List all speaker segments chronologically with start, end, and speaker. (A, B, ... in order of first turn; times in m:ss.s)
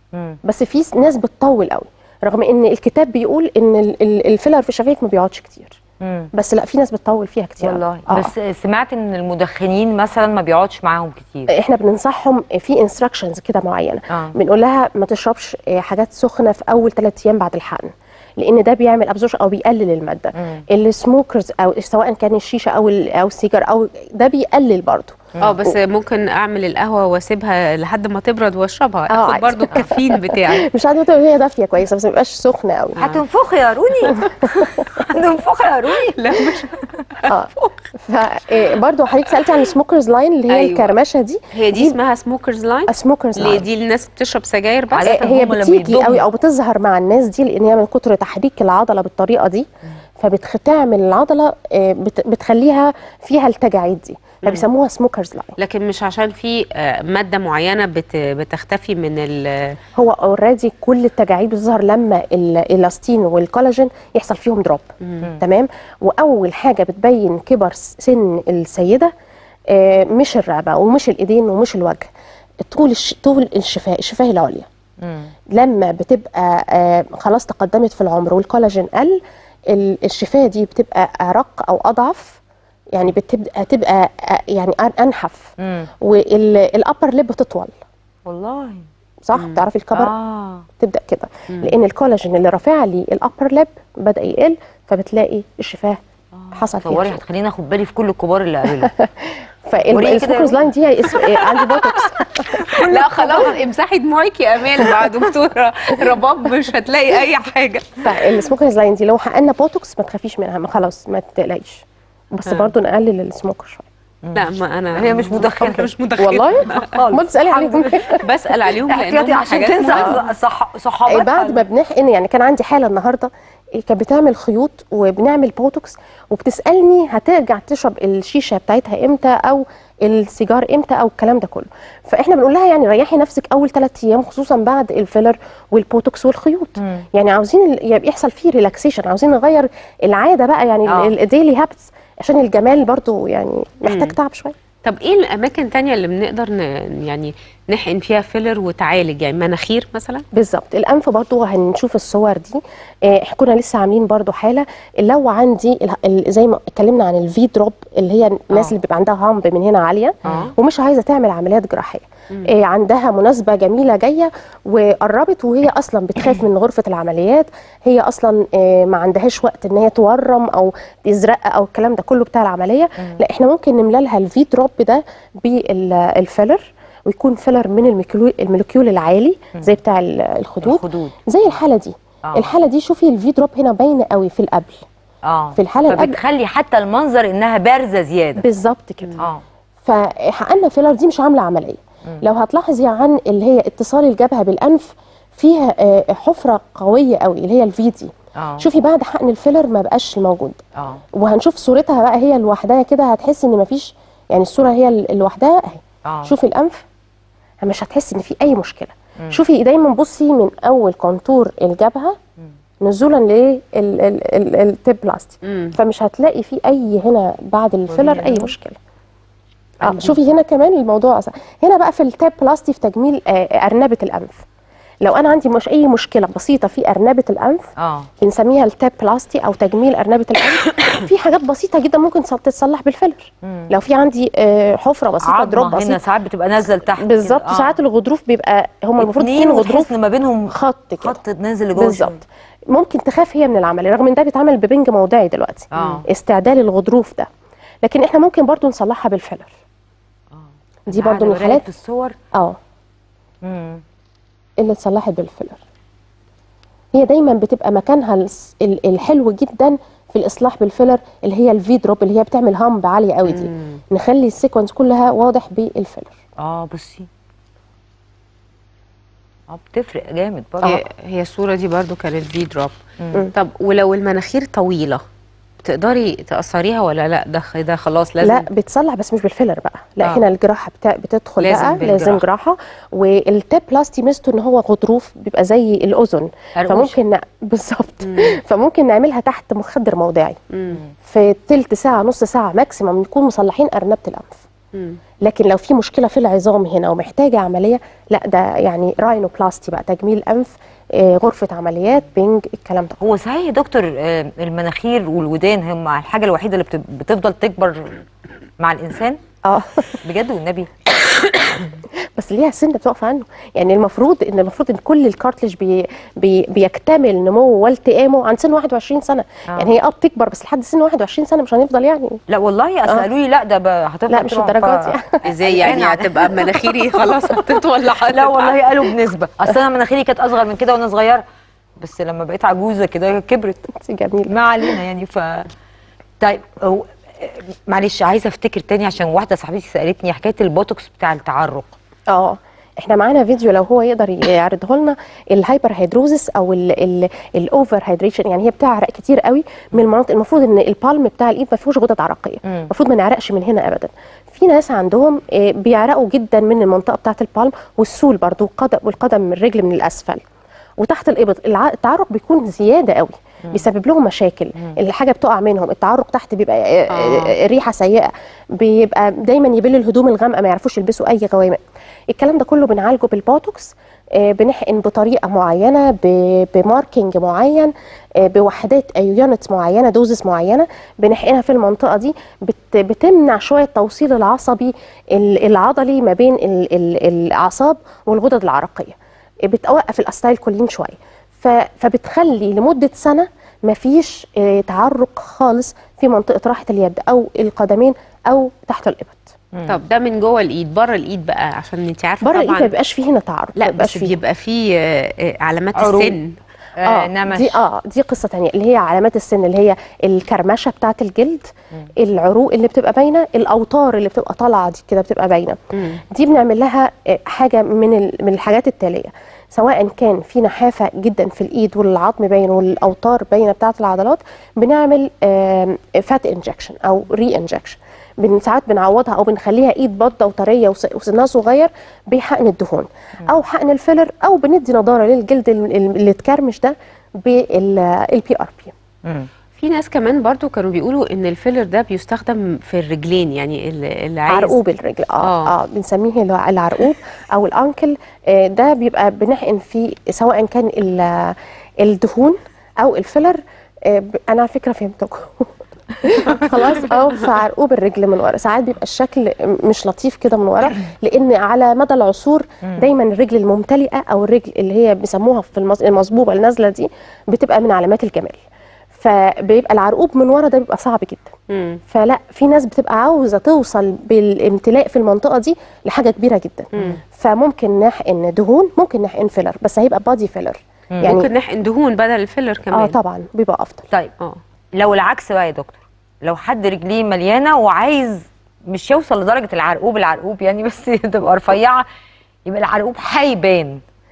0:00.1-0:00.4 A
0:00.4-0:05.8 B
0:06.0-0:06.3 A
0:06.3-0:08.3 B
0:07.6-0:11.5 A
0:11.5-0:25.7 B
0:14.1-0:14.4 A
0:20.4-0:20.6 A
0:25.4-0:30.7 C
0:29.1-0:33.0 B
0:33.0-0:36.9 A
0:34.1-0:35.0 B
0:36.1-0:37.3 C
0:37.3-0:42.0 B
0:40.5-0:40.9 C
0:41.5-0:45.1 C
0:42.9-0:43.6 B
0:44.9-0:46.2 A
0:45.0-0:49.7 B
0:50.2-0:55.6 B
0:55.6-0:59.8 C
0:59.9-1:04.9 B
1:05.0-1:05.3 C
1:05.4-1:09.1 B
1:09.7-1:12.1 B
1:12.6-1:14.7 B
1:15.0-1:15.3 A
1:15.5-1:22.4 B
1:22.9-1:27.7 B
1:25.6-1:25.9 A
1:28.2-1:28.8 A
1:29.2-1:30.1 B
1:29.3-1:29.6 C
1:29.9-1:30.7 A
1:30.8-1:36.0 B
1:36.4-1:38.9 A
1:36.5-1:37.2 B
1:38.8-1:43.5 B
1:39.9-1:40.7 A
1:41.2-1:48.4 C
1:42.6-1:43.4 A
1:44.8-1:45.1 B
1:48.0-1:53.8 B
1:52.5-1:52.7 C
1:54.2-1:55.9 A
1:54.3-1:56.9 C
1:56.2-1:58.2 B
1:56.6-1:58.2 A
1:58.2-2:00.2 C
1:58.9-2:01.6 A
1:59.8-2:00.2 B
2:01.0-2:24.6 B
2:16.8-2:17.1 A
2:20.8-2:21.1 A
2:23.8-2:24.1 C
2:24.8-2:30.2 C
2:30.3-3:04.8 B
2:40.2-2:40.5 A
2:40.3-2:40.5 C
3:00.6-3:01.2 A
3:02.2-3:02.5 A
3:05.2-3:08.4 A
3:05.5-3:06.2 B
3:08.4-3:09.2 B
3:09.2-3:09.4 A
3:09.8-3:20.6 B
3:18.4-3:18.7 A
3:20.8-3:21.0 A
3:21.1-3:26.8 B
3:26.0-3:26.3 A
3:27.6-3:32.2 B
3:32.8-3:38.8 B
3:35.4-3:35.7 C
3:37.9-3:38.5 A
3:39.8-3:44.4 B
3:39.8-3:40.1 C
3:45.0-3:47.7 B
3:47.8-3:48.1 A
3:48.2-3:56.0 B
3:53.4-3:53.7 A
3:55.2-3:57.8 A
3:57.0-3:59.9 B
3:59.0-4:02.2 A
4:00.5-4:01.2 B
4:01.7-4:07.3 B
4:05.7-4:06.1 A
4:07.8-4:09.5 B
4:10.3-4:12.2 A
4:10.9-4:11.7 B
4:13.4-4:13.8 A
4:14.6-4:15.6 B
4:16.9-4:26.2 B
4:23.3-4:23.8 C
4:26.4-4:27.1 A
4:29.5-4:30.8 A
4:30.6-4:32.8 C
4:33.3-4:35.0 C
4:35.6-4:38.5 C
4:38.2-4:50.4 B
4:41.4-4:42.2 C
4:46.6-4:46.9 A
4:48.0-4:48.4 C
4:50.5-4:50.8 C
4:51.0-4:54.4 B
4:54.7-4:55.0 C
4:55.2-5:03.0 B
5:03.0-5:08.0 A
5:08.6-5:09.2 A
5:09.4-5:10.0 B
5:09.9-5:10.7 A
5:11.9-5:22.2 B
5:22.3-5:31.2 A
5:24.1-5:25.2 B
5:25.2-5:28.6 C
5:31.8-5:33.7 A
5:33.7-5:34.8 B
5:34.3-5:35.5 A
5:36.2-5:41.8 A
5:42.1-6:00.2 B
5:52.4-5:52.7 A
6:00.8-6:11.6 B
6:06.9-6:07.3 C
6:12.1-6:39.3 B
6:39.5-6:39.8 A
6:39.7-6:42.7 C
6:42.2-6:44.2 B
6:43.6-6:46.3 C
6:45.8-6:46.2 A
6:46.8-6:47.6 A
6:46.8-6:55.6 B
6:55.7-6:56.0 C
6:56.1-7:18.7 B
7:19.6-7:24.6 C
7:24.3-7:48.4 B
7:25.2-7:25.5 C
7:42.6-7:42.9 A
7:48.9-7:51.3 B
7:51.5-7:51.8 C
7:51.9-8:01.3 B
8:01.0-8:03.0 C
8:02.7-8:03.9 B
8:04.8-8:11.8 A
8:12.4-8:13.8 A